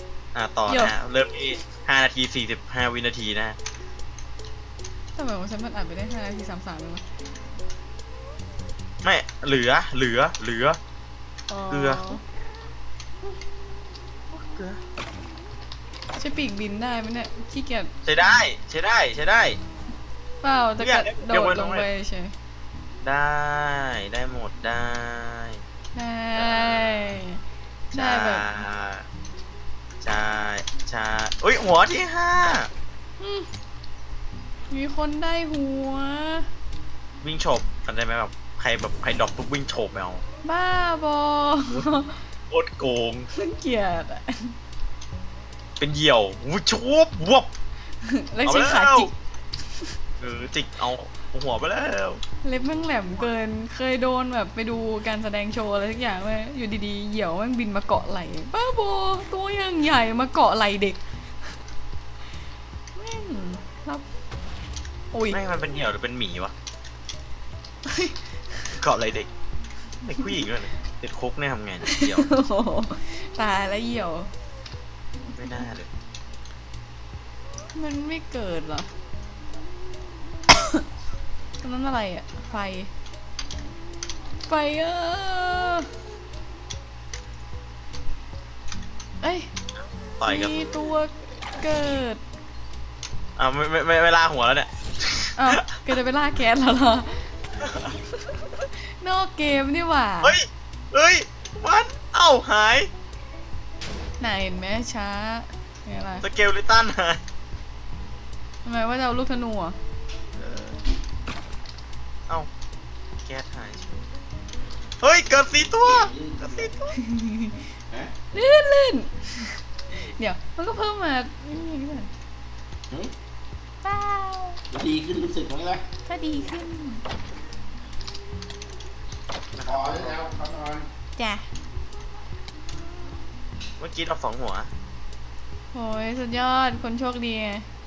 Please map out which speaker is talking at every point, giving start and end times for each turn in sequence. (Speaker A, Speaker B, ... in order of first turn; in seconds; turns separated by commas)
Speaker A: 0.3-3.6, Speaker B: 0.7-0.9, Speaker B: 5.1-7.0, Speaker A: 9.0-10.8, Speaker B: 11.5-12.2, Speaker A: 11.7-12.2, Speaker A: 14.3-14.8, Speaker B: 16.1-17.9, Speaker A: 18.1-19.6, Speaker B: 20.4-22.3, Speaker A: 20.8-21.9, Speaker A: 23.0-25.6, Speaker B: 25.9-27.4, Speaker A: 26.3-27.2, Speaker B: 27.9-28.4, Speaker A: 27.9-29.1, Speaker A: 30.0-32.7, Speaker B: 33.2-33.5, Speaker B: 34.7-36.5, Speaker A: 37.2-40.2, Speaker B: 40.4-42.2, Speaker A: 42.5-43.3, Speaker B: 43.3-44.5, Speaker A: 45.8-47.5, Speaker B: 48.0-49.1, Speaker A: 48.4-49.1, Speaker A: 50.2-52.2, Speaker B: 52.4-61.0, Speaker B: 62.9-64.0, Speaker B: 65.1-65.4, Speaker A: 65.3-66.5, Speaker B: 67.9-68.2, Speaker A: 68.8-69.3, Speaker A: 70.0-72.3, Speaker B: 71.9-74.3, Speaker A: 75.4-75.9, Speaker B: 77.7-78.9, Speaker B: 80.6-80.8, Speaker B: 81.6-82.9, Speaker B: 84.5-85.9, Speaker B: 89.2-89.5, Speaker A: 90.2-90.6, Speaker B: 90.2-92.2, Speaker A: 93.4-95.7, Speaker B: 95.4-97.3, Speaker A: 97.6-97.9, Speaker B: 97.9-100.4, Speaker A: 100.2-102.9, Speaker B: 104.2-106.2, Speaker A: 106.2-107.2, Speaker B: 108.6-109.8, Speaker A: 110.4-110.8, Speaker A: 113.2-114.0, Speaker A: 115.0-117.0, Speaker C: 115.8-116.7, Speaker B: 117.0-117.7, Speaker B: 118.3-122.1, Speaker B: 123.8-124.6, Speaker C: 124.7-125.8, Speaker B: 126.1-127.0, Speaker A: 129.5-130.3, Speaker C: 129.6-130.9, Speaker B: 131.2-131.4, Speaker A: 133.8-134.7, Speaker B: 135.7-137.7